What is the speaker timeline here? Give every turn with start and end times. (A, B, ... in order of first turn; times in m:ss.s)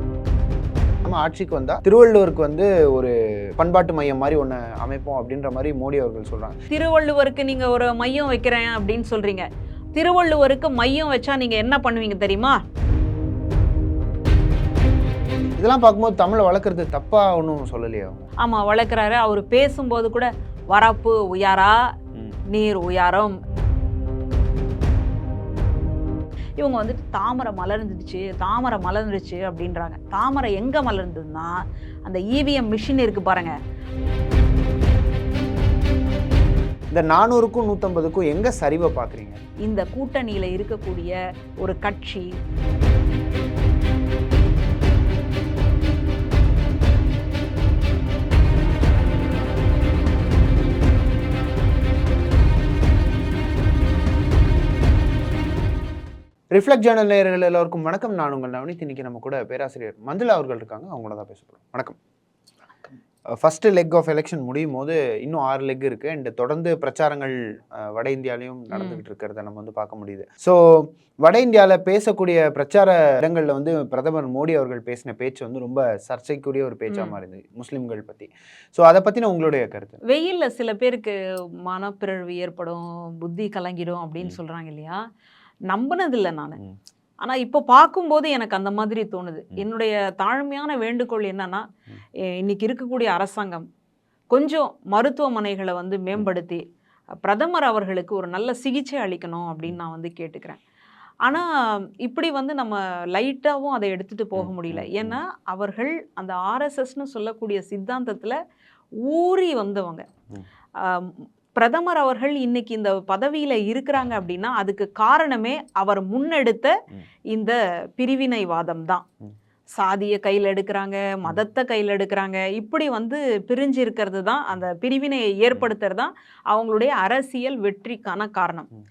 0:01.0-0:06.6 A
0:06.7-0:12.6 B
0:15.6-0:18.2 A
0:18.4-0:21.8 B
0:22.5-0:23.4 B
0:26.6-0:33.6 B
0:36.9-0:39.4 A
0:39.6-0:42.3 B
0:56.5-1:02.0 A
1:03.3-1:20.0 A
1:08.7-1:09.0 B
1:20.0-1:25.0 B
1:25.7-1:26.6 B
1:27.2-1:31.6 B
1:32.4-1:33.6 B
1:34.3-1:36.6 B
1:37.2-1:40.6 B
1:41.2-1:41.5 B
1:42.0-1:48.4 B
1:44.4-1:45.2 A
1:49.1-1:50.0 B
1:50.8-1:56.7 B
1:57.3-1:59.0 B
1:59.8-2:08.7 B